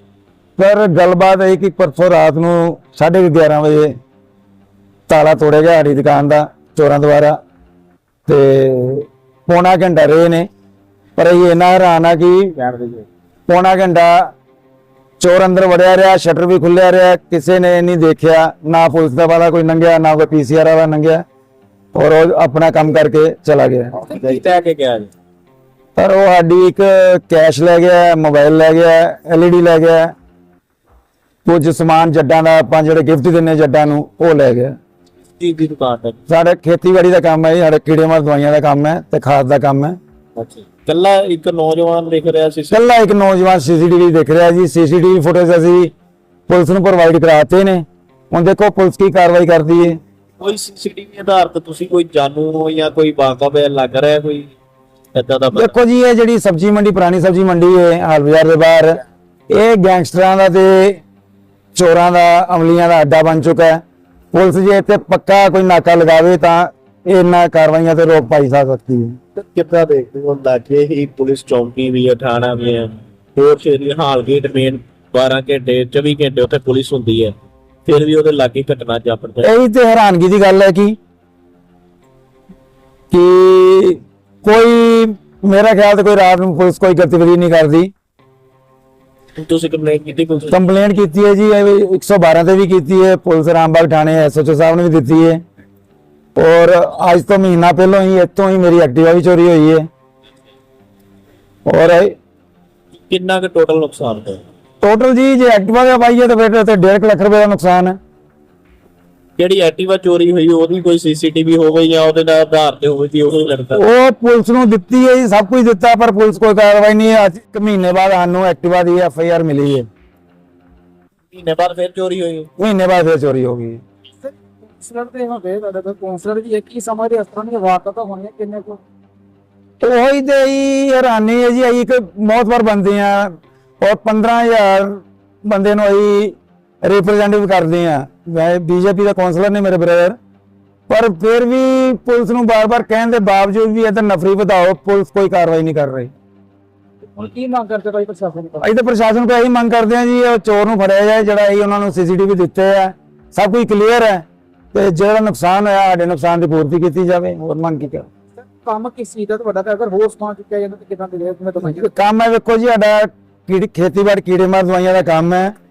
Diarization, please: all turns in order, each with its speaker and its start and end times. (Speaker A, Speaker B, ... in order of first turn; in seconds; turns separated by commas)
Speaker A: 0.6-3.9, Speaker A: 5.1-7.4, Speaker A: 8.3-10.5, Speaker A: 11.2-14.3, Speaker A: 15.2-21.2, Speaker A: 21.9-24.0, Speaker B: 24.0-25.1, Speaker A: 26.0-30.1, Speaker A: 31.5-34.8, Speaker B: 35.4-36.2, Speaker A: 36.3-40.0, Speaker B: 40.4-42.8, Speaker A: 42.7-45.9, Speaker A: 46.5-50.0, Speaker B: 50.4-54.5, Speaker B: 55.1-55.7, Speaker A: 55.5-59.0, Speaker A: 59.5-61.0, Speaker A: 61.8-63.8, Speaker A: 64.3-69.2, Speaker B: 69.4-79.5, Speaker A: 79.4-81.0, Speaker A: 83.1-87.9, Speaker B: 89.4-90.6, Speaker A: 90.5-95.4, Speaker A: 96.4-99.9, Speaker A: 101.7-102.1, Speaker B: 103.1-104.4, Speaker A: 104.8-108.0, Speaker B: 109.4-113.8, Speaker A: 113.7-119.9, Speaker B: 121.3-122.5, Speaker A: 122.6-123.8, Speaker C: 124.2-128.8, Speaker A: 129.8-140.2, Speaker A: 140.9-146.1, Speaker C: 147.2-148.7, Speaker A: 148.6-158.1, Speaker C: 158.4-161.9, Speaker A: 161.7-165.6